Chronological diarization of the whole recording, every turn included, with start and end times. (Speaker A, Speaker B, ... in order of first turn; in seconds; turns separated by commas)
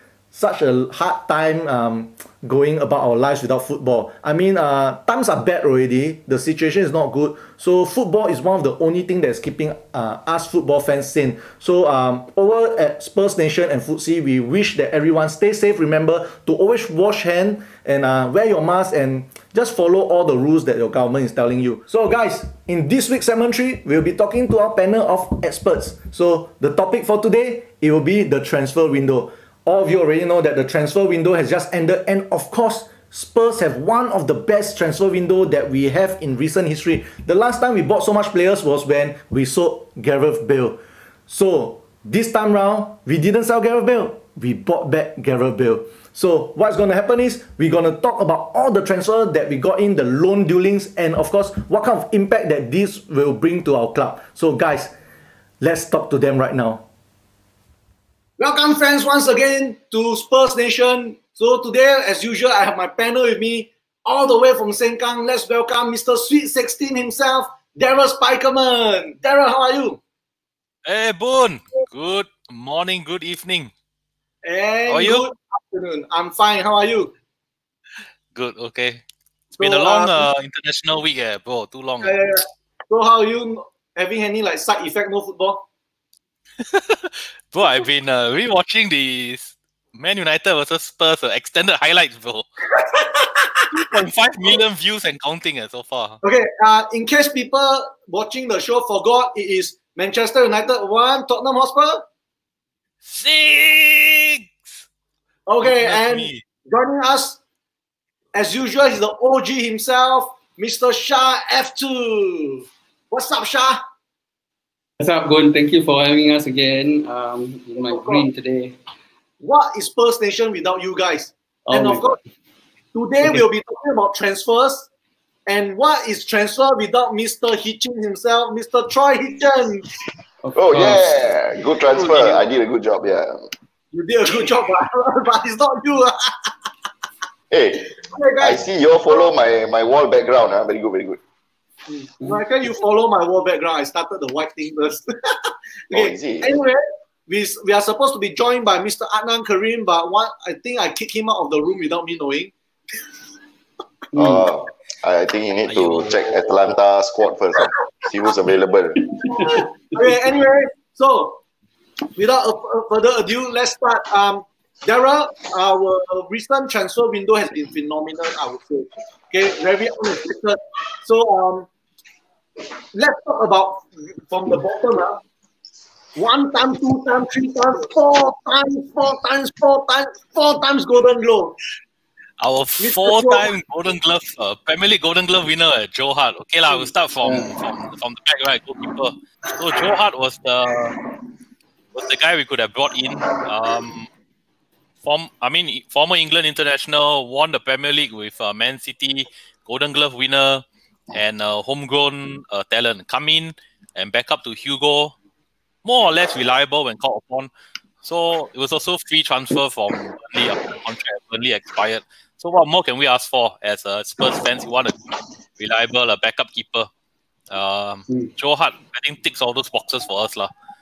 Speaker A: 0.3-54.9, Speaker A: 55.6-56.8, Speaker B: 58.4-70.0, Speaker C: 70.8-73.7, Speaker B: 74.4-77.1, Speaker C: 74.9-75.2, Speaker C: 78.3-79.0, Speaker C: 79.6-82.2, Speaker B: 79.6-80.3, Speaker B: 82.0-85.6, Speaker C: 86.7-92.5, Speaker B: 92.9-93.7, Speaker C: 93.7-96.2, Speaker B: 96.2-102.0, Speaker C: 103.0-104.7, Speaker B: 105.5-107.4, Speaker C: 105.6-106.4, Speaker B: 108.3-113.8, Speaker D: 115.0-118.8, Speaker B: 117.8-118.3, Speaker B: 119.4-122.2, Speaker D: 121.7-122.2, Speaker B: 122.9-124.9, Speaker B: 125.5-129.9, Speaker D: 130.4-131.1, Speaker E: 130.6-133.5, Speaker B: 131.9-132.5, Speaker B: 133.9-136.5, Speaker E: 137.5-141.2, Speaker B: 137.9-138.6, Speaker B: 141.9-152.5, Speaker E: 145.9-146.6, Speaker D: 154.1-154.5, Speaker E: 154.2-159.0, Speaker C: 155.7-156.5, Speaker D: 159.0-160.1, Speaker B: 159.3-161.4, Speaker B: 162.2-171.7, Speaker B: 172.9-175.2, Speaker B: 176.2-181.6, Speaker C: 182.4-191.0, Speaker B: 182.8-183.5, Speaker D: 187.2-187.5, Speaker C: 191.9-194.1, Speaker C: 195.0-205.1, Speaker C: 205.8-207.5, Speaker C: 208.0-216.9, Speaker C: 217.5-220.5